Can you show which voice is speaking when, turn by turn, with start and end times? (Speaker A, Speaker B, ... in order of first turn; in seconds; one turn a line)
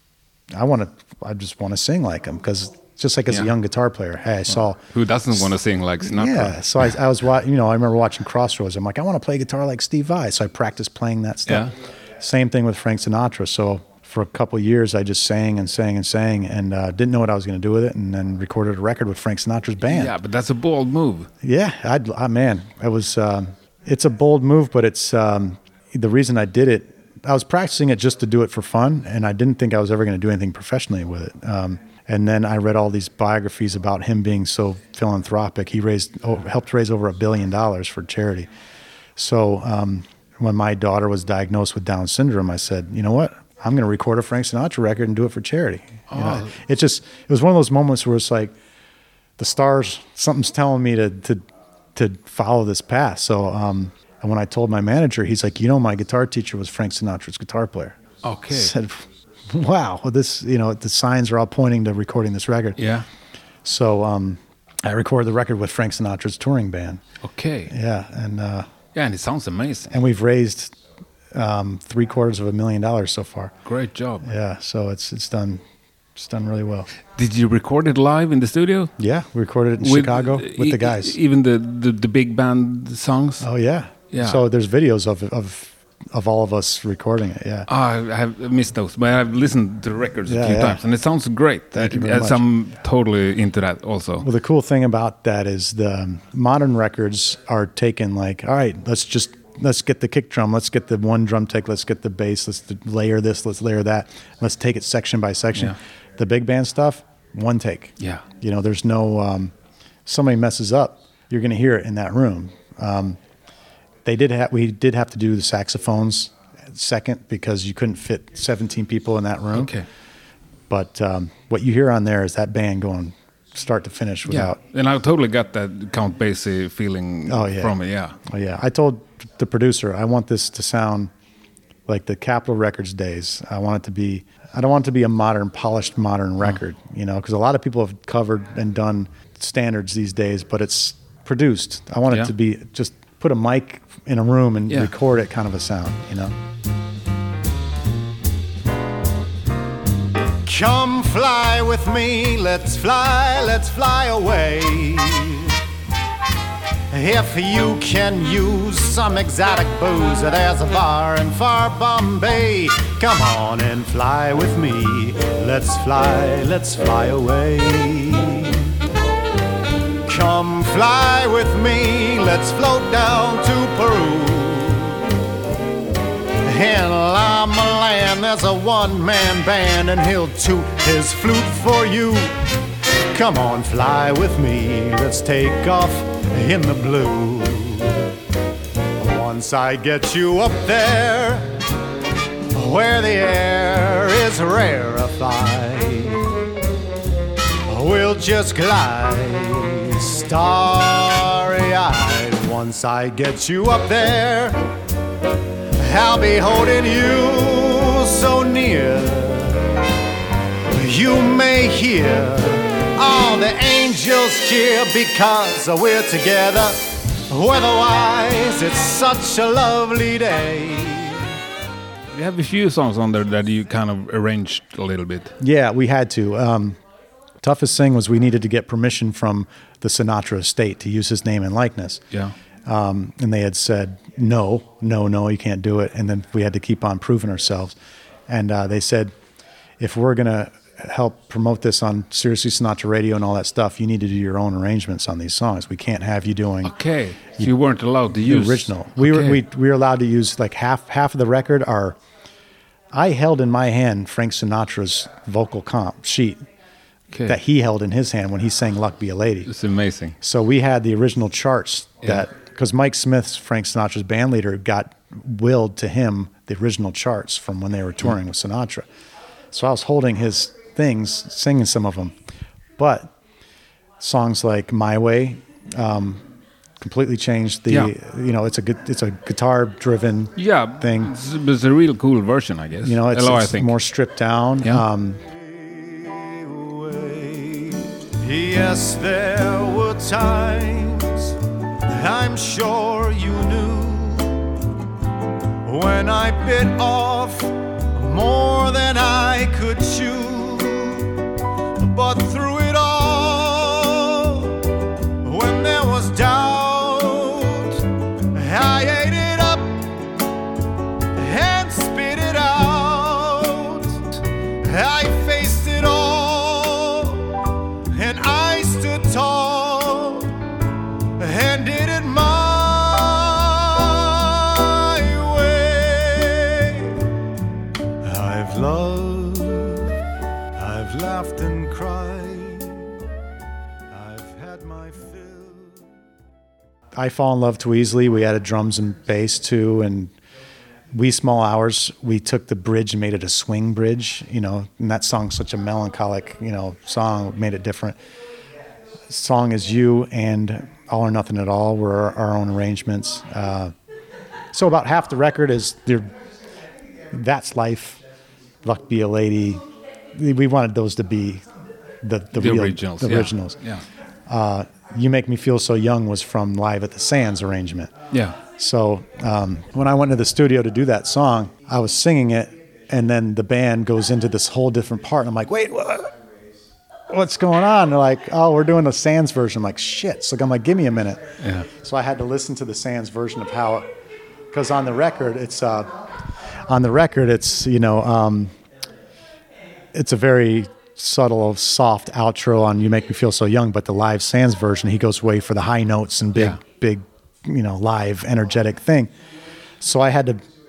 Speaker A: 0.5-4.8
Speaker B: 4.8-6.9
Speaker A: 6.1-20.1
Speaker B: 11.5-11.7
Speaker B: 19.9-21.3
Speaker A: 21.4-38.5
Speaker A: 39.2-48.5
Speaker B: 46.1-46.5
Speaker A: 49.4-51.4
Speaker A: 51.9-58.0
Speaker B: 58.2-58.7
Speaker A: 58.5-62.8
Speaker B: 62.8-63.1
Speaker A: 63.6-67.0
Speaker B: 67.2-67.7
Speaker A: 67.7-68.7
Speaker B: 68.9-69.9
Speaker A: 69.9-70.7
Speaker A: 71.3-73.5
Speaker B: 73.6-74.3
Speaker A: 74.2-75.6
Speaker A: 76.2-76.9
Speaker B: 77.2-78.9
Speaker A: 79.0-81.1
Speaker B: 79.8-83.5
Speaker A: 83.4-87.7
Speaker B: 84.1-84.4
Speaker B: 87.7-94.3
Speaker A: 90.3-90.8
Speaker A: 91.7-92.4
Speaker A: 94.2-109.5
Speaker A: 110.0-113.2
Speaker A: 114.0-119.7
Speaker B: 119.5-119.8
Speaker A: 120.7-124.6
Speaker B: 124.3-128.2
Speaker A: 127.3-131.1
Speaker A: 131.9-146.3
Speaker C: 150.4-155.5
Speaker C: 156.9-168.7
Speaker C: 170.1-175.1
Speaker C: 176.4-182.4
Speaker C: 183.1-188.1
Speaker C: 189.0-191.6
Speaker C: 192.5-196.3
Speaker C: 197.7-204.6
Speaker C: 205.8-209.7
Speaker C: 210.7-221.3
Speaker B: 222.1-225.3
Speaker A: 225.4-226.8
Speaker A: 227.4-232.0
Speaker A: 232.7-237.8
Speaker A: 238.3-239.1
Speaker A: 239.8-246.7
Speaker B: 246.6-249.4
Speaker A: 248.2-252.0
Speaker A: 252.9-256.4
Speaker B: 257.1-257.4
Speaker A: 257.2-259.5
Speaker B: 259.5-260.1
Speaker A: 260.2-268.9
Speaker A: 269.5-272.1
Speaker A: 272.8-273.1
Speaker A: 274.0-276.2
Speaker A: 276.8-281.1
Speaker B: 280.4-283.8
Speaker A: 282.8-285.2
Speaker C: 285.5-291.4
Speaker C: 291.9-294.4
Speaker C: 295.6-301.1
Speaker C: 301.8-304.6
Speaker C: 305.2-309.9
Speaker C: 311.1-314.0
Speaker C: 314.6-317.4
Speaker C: 317.9-320.4
Speaker C: 321.2-327.1
Speaker C: 328.0-329.9
Speaker C: 330.6-332.9
Speaker C: 333.9-335.7
Speaker A: 336.9-340.1
Speaker A: 340.9-348.0
Speaker A: 349.1-353.7
Speaker A: 354.5-356.1
Speaker A: 357.1-358.0
Speaker A: 358.6-359.6
Speaker A: 360.1-361.4
Speaker A: 362.0-363.6
Speaker B: 362.4-363.8
Speaker A: 364.3-376.1
Speaker B: 368.1-368.4
Speaker A: 377.1-383.9
Speaker B: 381.4-381.6
Speaker A: 384.5-385.9
Speaker A: 386.6-388.5
Speaker A: 389.9-399.1
Speaker A: 399.8-400.4